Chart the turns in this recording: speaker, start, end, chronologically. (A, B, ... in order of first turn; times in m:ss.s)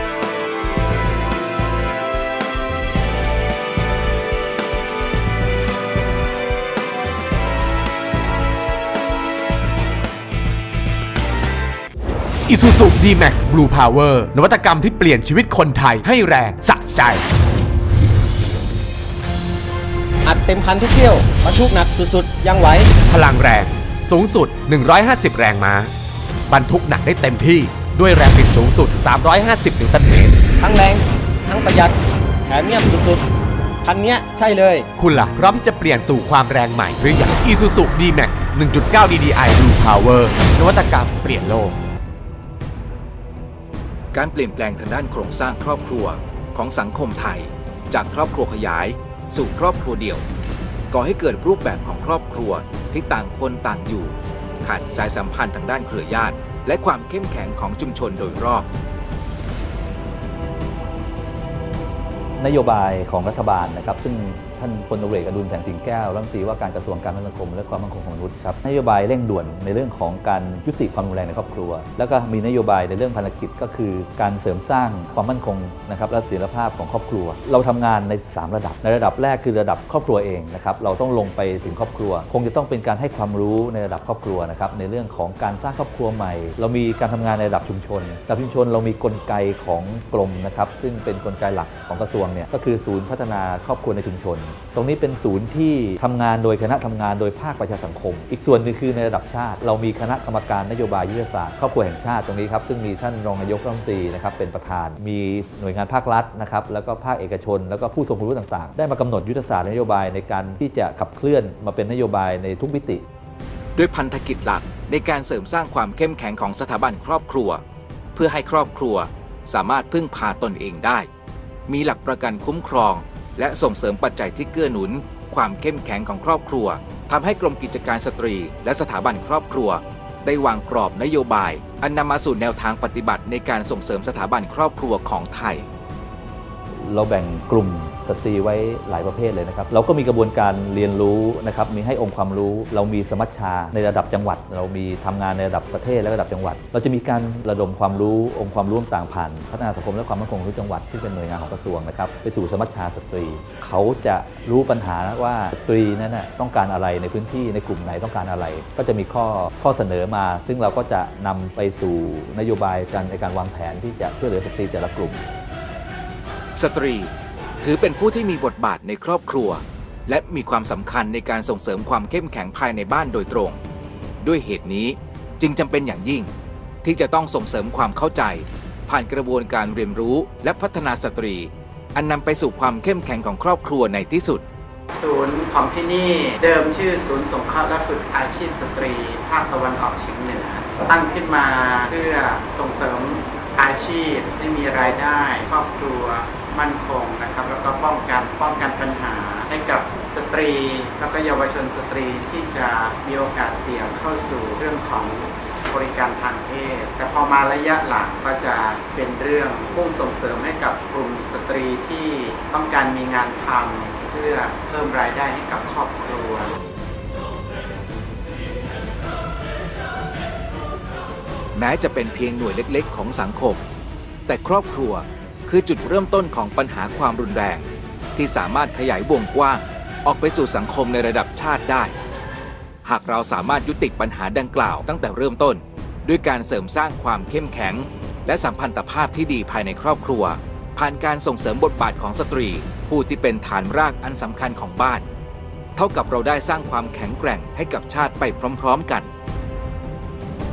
0:12.5-0:17.2 A
0:20.2-0:23.0 B
0:23.0-0:25.9 A
0:26.5-0:30.4 A
0:30.6-0:32.0 B
0:32.5-0:33.2 B
0:33.8-0:34.9 B
0:35.0-0:41.8 A
0:44.1-0:50.2 C
0:50.9-0:58.6 C
1:02.4-1:53.0 D
1:53.7-1:57.6 C
1:58.1-2:01.1 C
2:01.7-2:15.7 C
2:16.8-2:45.2 D
2:46.5-2:53.6 C
2:54.2-2:56.3 C
2:56.8-3:04.4 C
3:04.9-3:36.5 E
3:41.5-3:43.6 C
3:44.2-3:51.9 C
3:52.8-4:05.0 C
4:05.8-4:09.1 C